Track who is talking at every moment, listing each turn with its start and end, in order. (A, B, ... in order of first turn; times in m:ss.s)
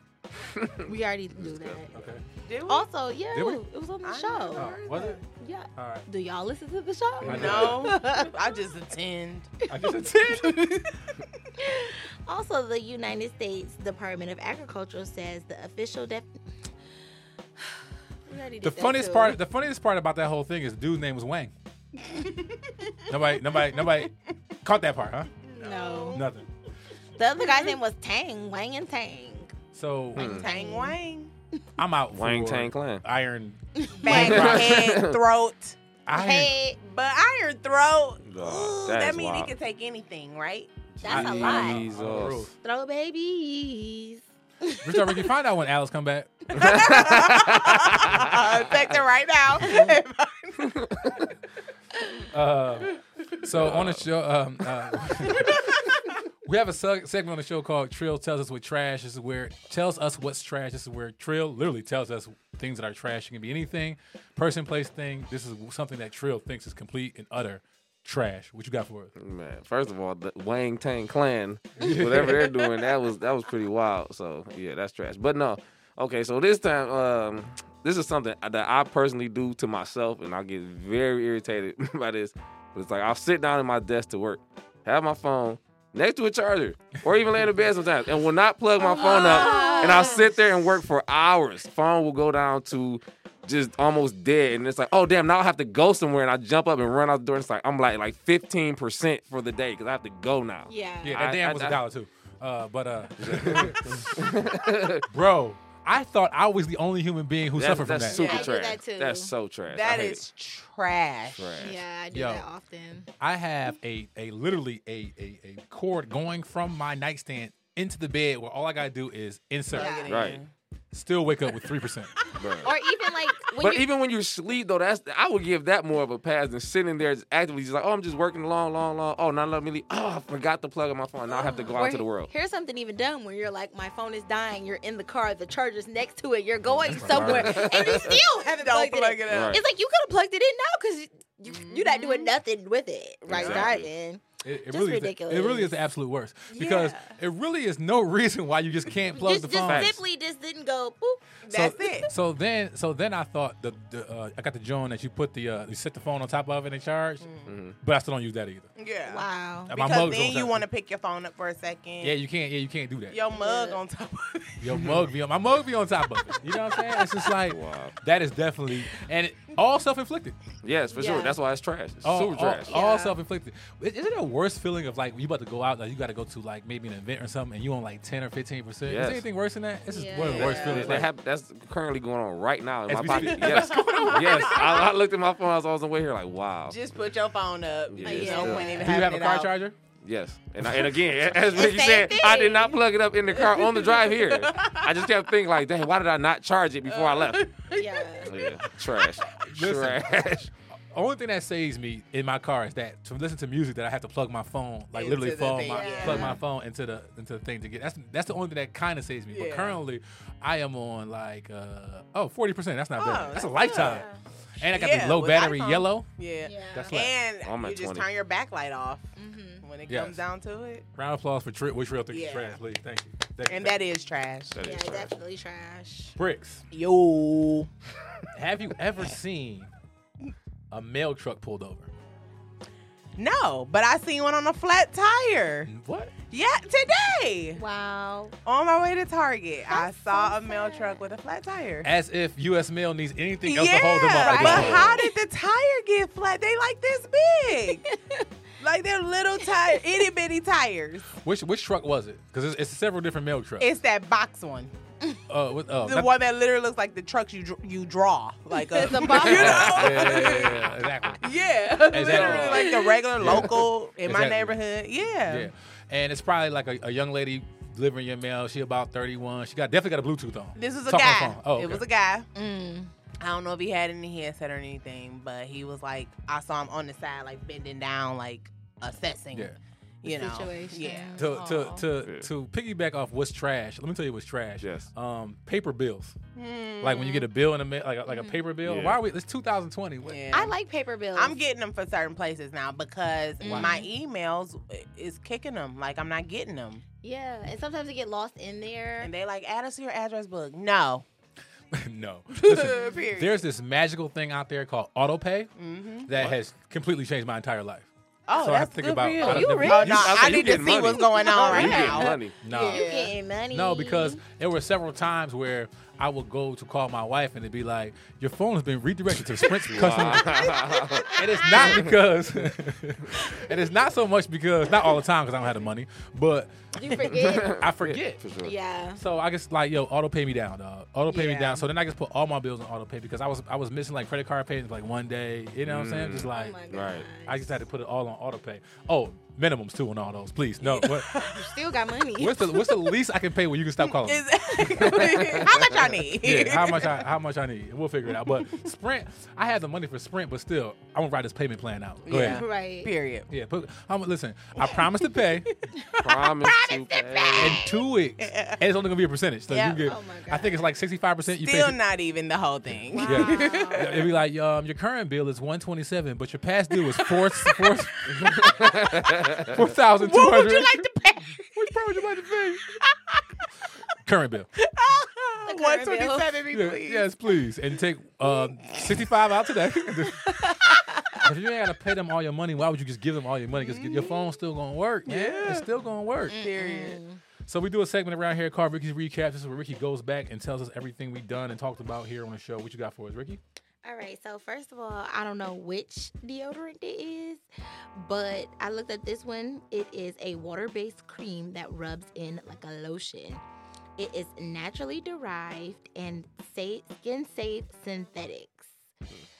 0:00.6-0:00.8 A
0:00.8-0:02.1 B
0:01.4-0:01.8 A
0:01.9-0:02.2 C
0:02.4-0:02.9 D
0:02.7-0:08.4 B
0:03.3-0:03.6 C
0:04.0-0:05.2 D
0:04.5-0:05.2 C
0:05.8-0:06.0 C
0:07.2-0:08.0 C
0:07.2-0:09.6 D
0:09.7-0:10.7 C
0:10.3-0:10.9 D
0:11.6-0:16.3 B
0:18.3-0:19.4 B
0:18.6-0:21.5 C
0:22.1-0:24.1 D
0:23.1-0:24.1 C
0:24.6-0:25.3 C
0:25.4-0:26.3 D
0:25.5-0:26.2 B
0:26.1-0:26.4 C
0:27.2-0:29.5 B
0:29.7-0:30.3 C
0:30.2-0:30.4 A
0:30.2-0:31.0 B
0:30.2-0:31.3 D
0:31.8-0:34.8 C
0:32.1-0:33.0 A
0:33.8-0:34.6 B
0:34.0-0:35.8 D
0:34.1-0:35.2 A
0:36.0-0:36.6 C
0:36.1-0:36.8 B
0:36.8-0:40.7 D
0:38.2-0:39.5 A
0:41.0-0:42.5 A
0:41.0-0:41.8 B
0:41.1-0:42.5 C
0:42.6-0:45.3 B
0:44.8-0:46.5 C
0:46.6-0:50.8 D
0:46.6-0:48.3 A
0:52.3-0:55.6 C
0:53.5-0:54.0 A
0:55.3-0:55.6 D
0:56.4-1:09.1 C
1:09.2-1:41.8 A
1:11.8-1:12.5 C
1:28.8-1:30.3 B
1:29.5-1:29.9 D
1:40.7-1:41.2 B
1:41.0-1:44.2 C
1:43.2-1:45.0 A
1:45.1-1:48.2 C
1:47.5-1:50.2 A
1:48.1-1:48.5 D
1:48.1-1:49.3 B
1:49.7-1:51.7 D
1:51.4-1:51.8 A
1:51.6-1:53.1 B
1:52.1-1:52.4 C
1:53.2-2:00.0 C
1:59.7-2:00.5 D
1:59.7-2:00.2 B
2:00.1-2:00.4 A
2:00.9-2:02.1 C
2:02.4-2:02.7 A
2:02.6-2:03.9 B
2:03.6-2:12.3 A
2:11.3-2:25.8 B
2:16.8-2:18.2 A
2:16.9-2:17.6 C
2:17.6-2:19.6 D
2:19.3-2:19.6 A
2:21.5-2:22.3 D
2:23.3-2:23.9 A
2:23.3-2:23.7 D
2:24.4-2:30.0 C
2:26.5-2:27.2 D
2:29.1-2:31.2 B
2:29.6-2:30.0 A
2:31.4-2:32.1 D
2:31.5-2:38.7 C
2:37.2-2:37.5 D
2:37.5-2:37.7 A
2:38.8-2:42.2 D
2:39.1-2:39.7 B
2:39.7-2:40.6 C
2:42.0-2:43.2 C
2:43.1-2:44.8 D
2:43.3-2:43.8 B
2:44.6-2:50.4 C
2:46.2-2:47.3 D
2:47.4-2:47.9 A
2:50.6-2:52.8 A
2:50.9-2:51.4 B
2:52.0-3:01.1 C
2:52.7-2:53.2 B
2:58.8-2:59.2 A
2:59.9-3:01.0 B
3:00.2-3:00.9 D
3:00.5-3:06.8 A
3:02.9-3:04.6 C
3:03.0-3:04.8 D
3:06.7-3:09.5 D
3:07.9-3:08.9 A
3:08.0-3:08.9 B
3:08.7-3:09.8 C
3:10.0-3:17.5 A
3:11.5-3:12.8 B
3:13.3-3:15.2 D
3:16.8-3:19.4 D
3:17.7-3:18.3 B
3:18.2-3:20.5 A
3:19.5-3:34.0 C
3:24.9-3:26.4 D
3:25.7-3:26.3 B
3:26.0-3:26.4 A
3:29.3-3:29.8 D
3:32.9-3:40.8 D
3:33.6-3:34.2 B
3:34.6-3:36.1 C
3:36.4-3:37.0 B
3:36.6-3:37.2 C
3:37.4-3:38.1 A
3:39.2-3:39.7 B
3:39.9-3:40.2 C
3:40.9-3:43.8 C
3:42.1-3:42.6 D
3:43.4-3:44.6 D
3:44.5-3:45.1 A
3:44.6-3:46.2 B
3:46.2-3:46.6 C
3:46.7-3:47.7 D
3:48.3-3:49.7 C
3:50.7-3:51.9 C
3:53.2-3:55.7 D
3:55.6-3:56.1 C
3:56.3-3:57.6 D
3:57.6-3:58.3 B
3:58.4-4:01.9 D
3:59.7-4:01.0 B
4:01.8-4:05.1 C
4:03.4-4:07.8 D
4:04.0-4:05.1 B
4:07.8-4:08.3 B
4:08.6-4:11.1 D
4:09.4-4:10.0 B
4:11.1-4:13.7 C
4:13.6-4:14.7 D
4:15.3-4:16.1 C
4:15.8-4:25.5 D
4:18.6-4:20.4 B
4:19.1-4:21.3 C
4:21.9-4:24.6 C
4:22.1-4:22.9 B
4:25.2-4:31.8 C
4:30.6-4:32.3 D
4:32.3-4:32.9 B
4:33.2-4:41.3 D
4:39.3-4:39.6 C
4:40.0-4:41.9 B
4:41.2-4:46.2 C
4:42.0-4:42.3 A
4:44.6-4:44.9 A
4:46.4-4:47.3 D
4:46.8-4:50.2 C
4:48.1-4:48.4 B
4:48.6-4:49.0 A
4:50.0-4:50.5 D
4:50.3-4:51.4 B
4:51.1-4:56.8 D
4:53.4-4:53.9 B
4:53.4-4:53.8 C
4:57.0-4:59.1 B
4:59.0-5:01.0 D
5:01.7-5:05.5 C
5:02.3-5:03.5 D
5:05.6-5:06.1 D
5:06.1-5:10.9 C
5:08.3-5:13.1 D
5:09.2-5:14.2 B
5:09.8-5:12.3 A
5:12.4-5:12.9 C
5:13.5-5:20.3 C
5:19.7-5:21.9 A
5:20.2-5:21.0 D
5:21.2-5:26.5 C
5:21.4-5:21.8 B
5:26.8-5:27.6 B
5:27.2-5:28.6 A
5:27.5-5:28.2 C
5:28.4-5:29.0 B
5:29.0-5:36.6 C
5:31.1-5:31.6 D
5:35.6-5:37.0 A
5:36.3-5:37.6 B
5:37.2-5:41.1 C
5:40.6-5:42.6 B
5:40.8-5:41.4 D
5:42.2-5:45.4 C
5:43.8-5:47.1 D
5:45.2-5:45.7 A
5:46.2-5:52.4 C
5:48.0-5:48.7 D
5:52.0-5:53.3 D
5:52.2-5:52.9 B
5:53.3-5:55.6 C
5:54.6-5:58.6 D
5:56.0-5:57.6 A
5:57.4-6:01.8 C
5:59.5-5:59.8 D
5:59.8-6:00.6 B
6:01.3-6:04.1 D
6:02.7-6:08.4 C
6:03.0-6:04.0 B
6:06.7-6:08.5 D
6:08.5-6:09.5 A
6:09.4-6:10.9 C
6:10.0-6:11.9 D
6:11.5-6:12.6 C
6:14.0-6:14.5 C
6:14.6-6:17.1 D
6:15.4-6:16.4 B
6:16.5-6:20.2 C
6:18.7-6:19.1 D
6:20.0-6:20.3 D
6:21.2-6:26.4 C
6:21.2-6:21.7 D
6:23.5-6:24.3 D
6:25.0-6:25.7 D
6:26.3-6:27.2 B
6:26.3-6:27.0 D
6:27.5-6:33.4 C
6:33.8-6:37.4 B
6:38.0-6:43.4 B
6:44.0-6:48.7 B